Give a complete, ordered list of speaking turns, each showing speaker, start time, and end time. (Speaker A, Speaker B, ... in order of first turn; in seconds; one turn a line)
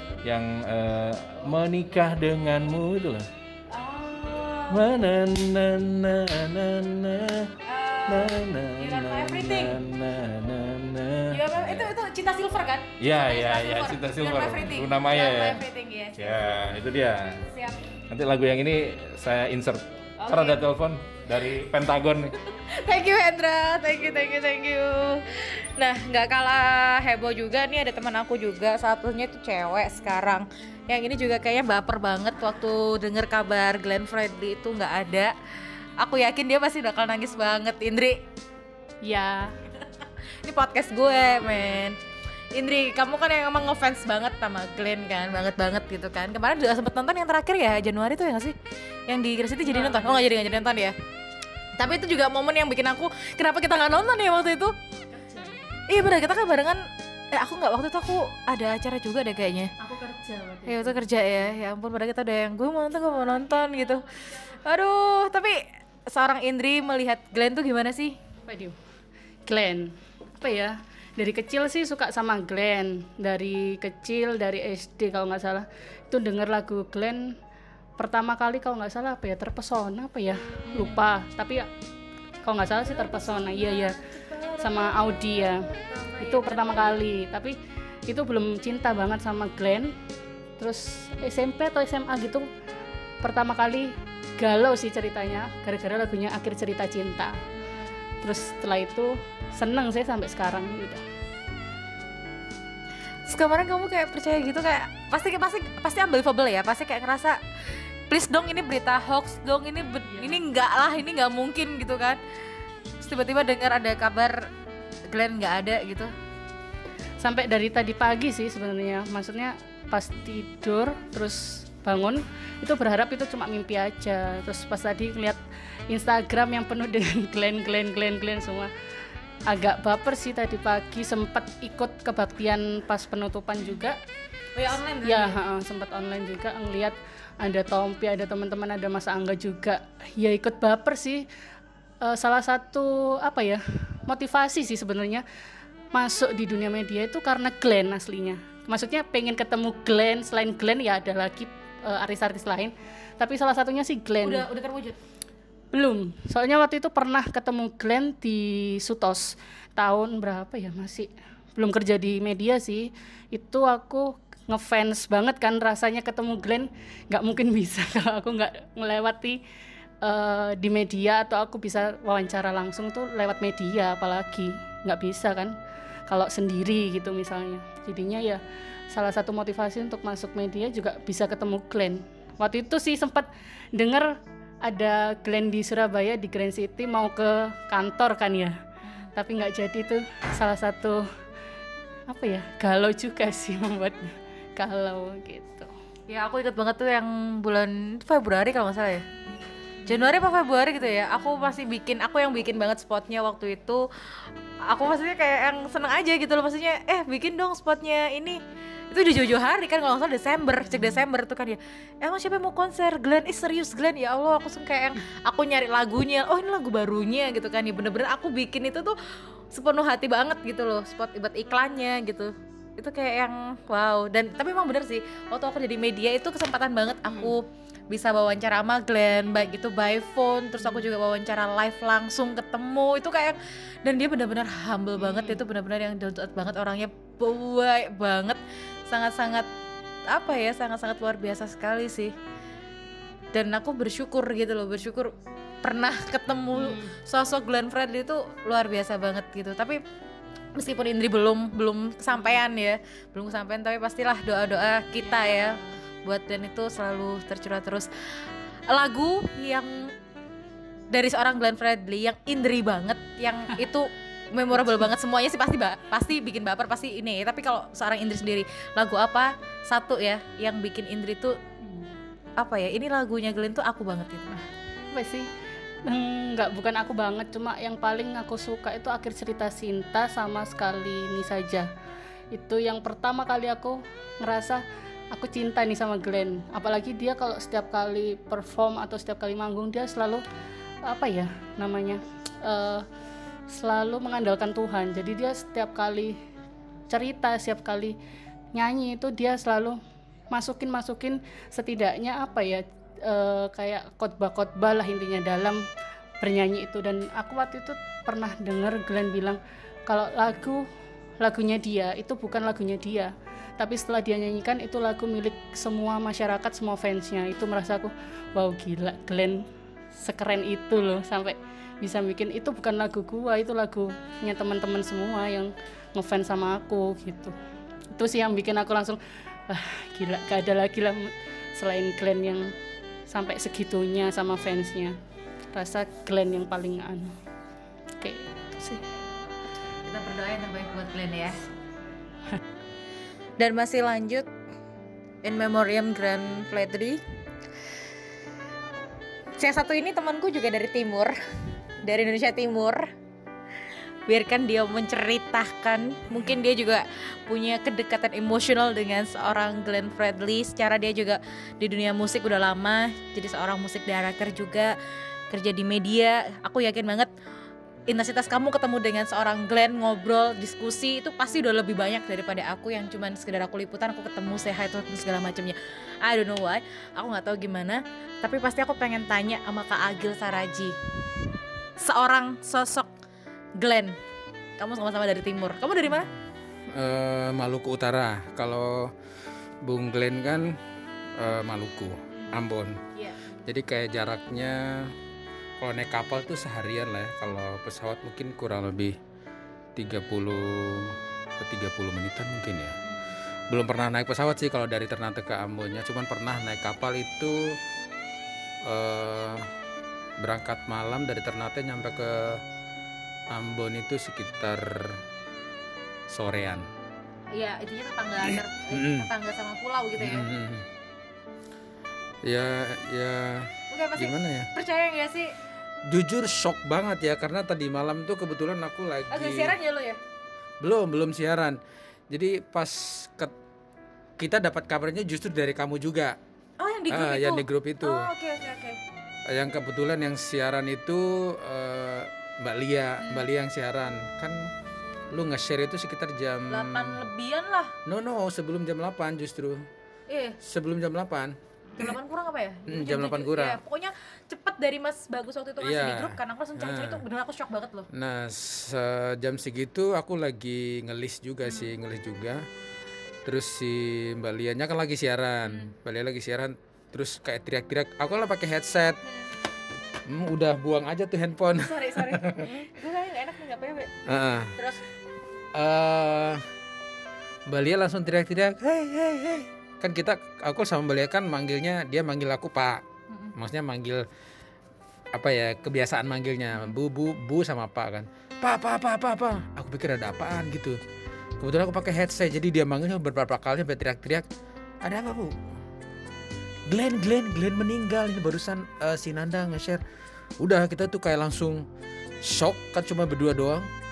Speaker A: 0.2-3.3
Speaker B: 3.7-4.9
Speaker A: 4.7-7.5
Speaker B: 7.6-9.8
Speaker A: 8.1-11.9
Speaker B: 11.3-16.2
Speaker A: 13.0-15.6
Speaker A: 16.2-17.5
Speaker B: 17.5-17.9
Speaker A: 18.1-22.4
Speaker B: 20.2-20.6
Speaker B: 22.4-35.4
Speaker B: 36.0-38.2
Speaker C: 39.0-39.6
Speaker B: 40.4-42.0
Speaker B: 42.5-48.5
Speaker B: 49.1-51.0
Speaker C: 49.6-50.7
Speaker B: 51.8-54.7
Speaker C: 55.1-55.7
Speaker B: 55.9-59.7
Speaker C: 59.8-61.1
Speaker B: 60.7-68.2
Speaker C: 63.3-64.5
Speaker C: 68.5-68.8
Speaker C: 69.5-77.4
Speaker C: 78.0-81.7
Speaker B: 80.7-81.1
Speaker C: 82.4-84.0
Speaker B: 82.8-87.0
Speaker C: 84.6-85.7
Speaker C: 86.2-87.6
Speaker C: 88.1-89.9
Speaker C: 90.6-92.5
Speaker C: 93.2-97.4
Speaker C: 98.2-101.0
Speaker B: 103.3-107.4
Speaker B: 108.1-112.2
Speaker C: 110.1-110.4
Speaker B: 113.0-114.5
Speaker B: 115.1-116.1
Speaker C: 117.2-128.7
Speaker C: 129.5-134.0
Speaker B: 134.6-135.4
Speaker C: 135.0-141.3
Speaker C: 142.0-145.2
Speaker C: 145.9-154.5
Speaker B: 154.2-155.0
Speaker C: 155.7-169.4
Speaker C: 170.0-175.6
Speaker C: 176.1-188.6
Speaker C: 189.2-191.0
Speaker C: 192.1-195.7
Speaker B: 196.1-199.1
Speaker B: 199.9-219.0
Speaker C: 210.8-211.0
Speaker B: 219.5-239.5
Speaker C: 235.0-235.4
Speaker B: 240.1-242.2
Speaker B: 243.3-249.8
Speaker C: 246.5-246.9
Speaker B: 250.6-259.9
Speaker C: 255.0-255.8
Speaker B: 260.9-271.4
Speaker B: 272.4-274.5
Speaker C: 274.9-275.3
Speaker C: 275.8-281.7
Speaker C: 282.3-290.2
Speaker C: 290.8-292.9
Speaker C: 293.5-296.2
Speaker C: 296.9-298.0
Speaker C: 298.5-299.8
Speaker C: 300.3-305.6
Speaker C: 306.2-310.7
Speaker C: 311.2-319.4
Speaker C: 320.0-327.4
Speaker C: 327.9-332.5
Speaker C: 333.1-335.0
Speaker C: 335.5-337.2
Speaker C: 338.0-338.9
Speaker B: 339.9-341.4
Speaker B: 343.4-344.3
Speaker B: 345.2-347.0
Speaker B: 349.4-351.2
Speaker B: 351.8-352.9
Speaker B: 354.1-364.8
Speaker B: 365.3-367.1
Speaker B: 367.9-380.8
Speaker B: 381.8-382.9
Speaker B: 383.6-384.0
Speaker B: 384.6-386.1
Speaker D: 386.7-388.9
Speaker D: 389.6-390.6
Speaker D: 391.2-392.8
Speaker B: 392.1-392.4
Speaker D: 393.5-394.9
Speaker D: 395.6-399.0
Speaker D: 399.8-402.8
Speaker B: 402.9-403.1
Speaker D: 403.5-407.6
Speaker D: 408.6-409.5
Speaker D: 410.2-412.4
Speaker D: 413.3-415.0
Speaker D: 416.1-416.7
Speaker B: 417.3-420.3
Speaker D: 418.3-419.1
Speaker D: 420.0-420.7
Speaker D: 422.2-424.5
Speaker B: 423.7-425.4
Speaker D: 425.9-429.6
Speaker B: 429.1-430.0
Speaker D: 430.6-431.6
Speaker D: 432.1-433.3
Speaker D: 434.2-436.2
Speaker B: 436.6-438.8
Speaker D: 436.9-438.1
Speaker D: 439.3-444.5
Speaker D: 445.1-447.1
Speaker B: 446.5-447.8
Speaker D: 447.9-449.7
Speaker B: 450.1-450.4
Speaker D: 450.4-451.4
Speaker B: 451.8-457.9
Speaker D: 452.7-453.6
Speaker D: 455.6-457.0
Speaker D: 457.9-462.4
Speaker B: 461.5-461.7
Speaker D: 463.3-469.0
Speaker B: 465.4-465.7
Speaker B: 469.1-469.3
Speaker D: 470.1-472.7
Speaker B: 471.6-474.0
Speaker D: 474.1-474.6
Speaker B: 474.6-474.8
Speaker D: 475.5-476.4
Speaker D: 477.5-482.8
Speaker D: 483.4-484.1
Speaker D: 485.1-490.8
Speaker D: 491.4-494.3
Speaker D: 494.8-495.6
Speaker D: 496.7-499.8
Speaker D: 500.4-501.7
Speaker D: 502.2-503.7